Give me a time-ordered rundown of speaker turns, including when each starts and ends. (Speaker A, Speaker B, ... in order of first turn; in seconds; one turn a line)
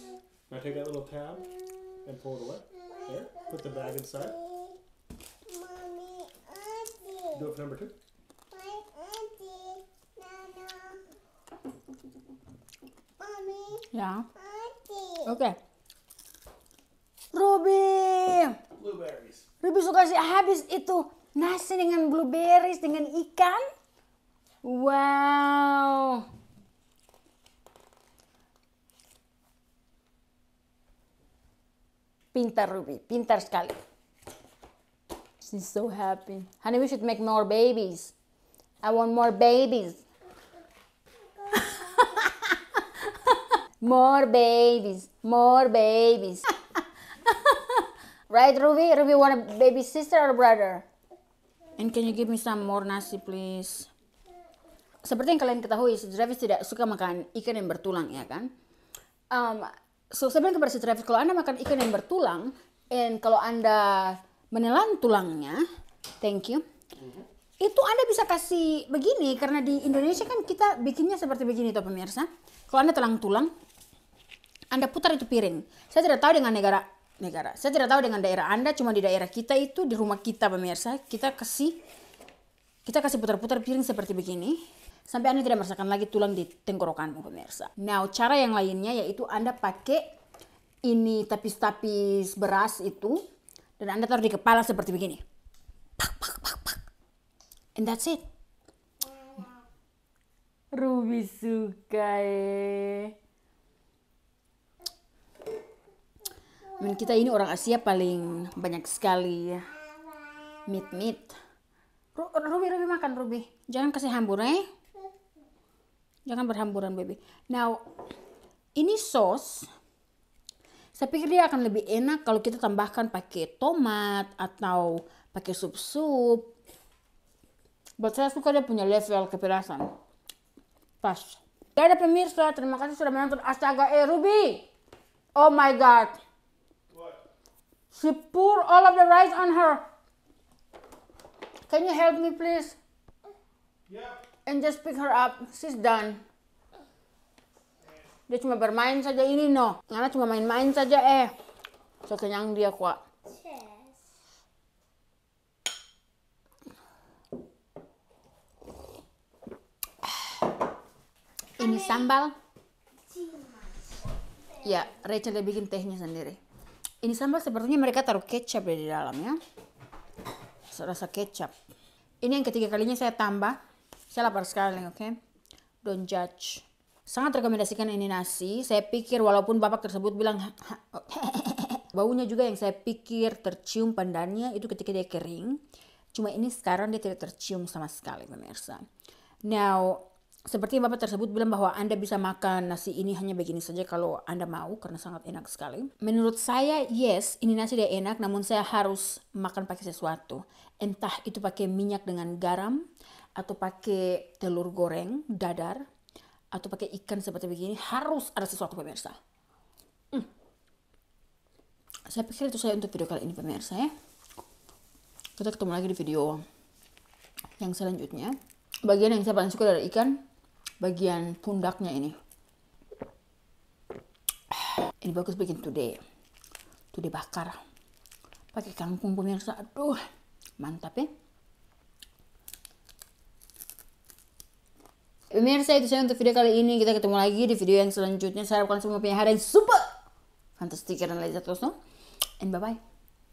Speaker A: 0.5-4.4
Speaker B: 5.5-7.4
Speaker A: 7.3-7.9
Speaker B: 8.5-11.0
Speaker B: 13.2-15.3
Speaker C: 13.9-14.3
Speaker C: 15.2-15.6
Speaker C: 17.3-18.6
Speaker A: 18.8-19.5
Speaker C: 19.6-23.6
Speaker C: 24.6-26.3
Speaker C: 32.3-33.8
Speaker C: 35.4-38.1
Speaker C: 38.8-40.0
Speaker C: 41.5-43.3
Speaker C: 43.8-46.5
Speaker C: 47.3-47.8
Speaker C: 48.3-50.8
Speaker C: 51.8-53.9
Speaker C: 55.0-58.5
Speaker C: 59.3-65.6
Speaker C: 66.2-66.6
Speaker C: 67.6-73.5
Speaker C: 74.7-81.8
Speaker C: 82.8-90.0
Speaker C: 90.8-93.2
Speaker C: 93.8-95.2
Speaker C: 96.0-96.8
Speaker C: 97.8-98.2
Speaker C: 100.7-103.1
Speaker C: 106.8-109.7
Speaker C: 110.7-111.4
Speaker C: 112.1-114.7
Speaker C: 116.2-117.8
Speaker C: 118.8-119.7
Speaker C: 120.9-126.5
Speaker C: 128.0-129.9
Speaker C: 131.0-134.7
Speaker C: 135.3-136.2
Speaker A: 136.9-137.2
Speaker C: 137.9-139.8
Speaker C: 141.7-142.8
Speaker A: 143.9-144.2
Speaker C: 144.4-146.2
Speaker C: 148.3-151.3
Speaker C: 152.1-153.0
Speaker B: 153.3-154.0
Speaker C: 161.6-162.3
Speaker B: 161.6-162.1
Speaker B: 163.1-163.8
Speaker C: 164.6-166.4
Speaker C: 167.0-169.4
Speaker C: 170.7-171.5
Speaker C: 172.2-173.6
Speaker C: 174.1-175.2
Speaker C: 175.8-185.6
Speaker C: 186.1-188.8
Speaker C: 189.4-202.8
Speaker C: 203.3-205.8
Speaker C: 206.5-209.2
Speaker C: 212.1-213.9
Speaker C: 215.4-216.4
Speaker C: 217.6-220.2
Speaker C: 220.8-222.2
Speaker C: 224.9-226.0
Speaker C: 226.9-227.6
Speaker C: 228.5-230.0
Speaker C: 230.6-231.1
Speaker C: 235.3-239.9
Speaker C: 240.6-241.8
Speaker C: 242.4-242.8